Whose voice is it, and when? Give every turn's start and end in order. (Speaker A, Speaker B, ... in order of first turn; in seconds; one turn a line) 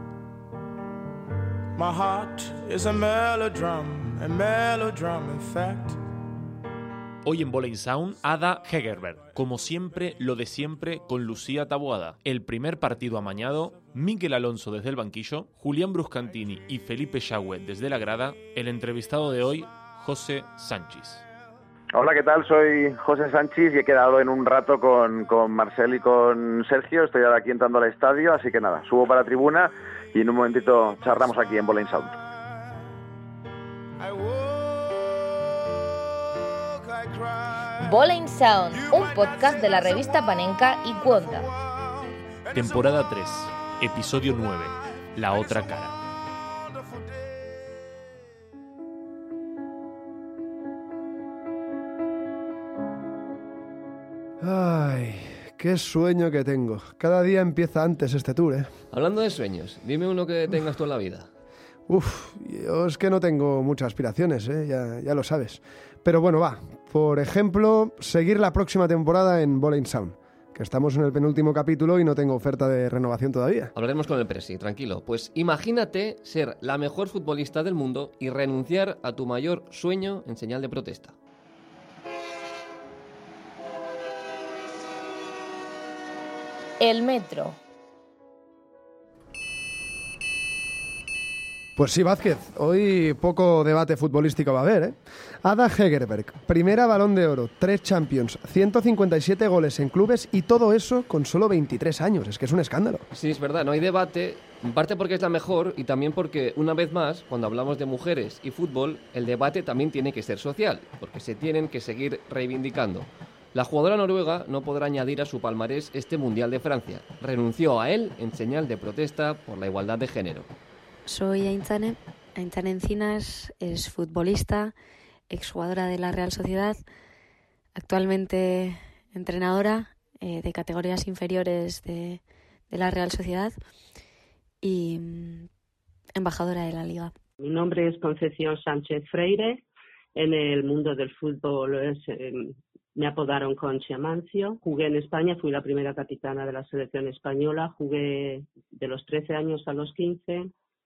Speaker A: 1.8-6.0
Speaker B: 7.2-21.2
Speaker C: 21.9-32.1
Speaker A: 34.0-35.0
Speaker A: 36.7-37.5
Speaker D: 37.8-41.5
Speaker B: 42.5-45.9
Speaker A: 42.5-43.0
Speaker E: 54.4-58.7
Speaker F: 58.9-61.3
Speaker E: 61.9-73.7
Speaker F: 73.7-81.1
Speaker D: 86.8-87.6
Speaker E: 91.8-103.0
Speaker F: 103.1-120.5
Speaker G: 121.1-124.7
Speaker G: 125.3-126.8
Speaker G: 127.8-133.6
Speaker G: 134.6-135.5
Speaker G: 136.2-137.1
Speaker H: 137.4-139.6
Speaker H: 140.1-150.5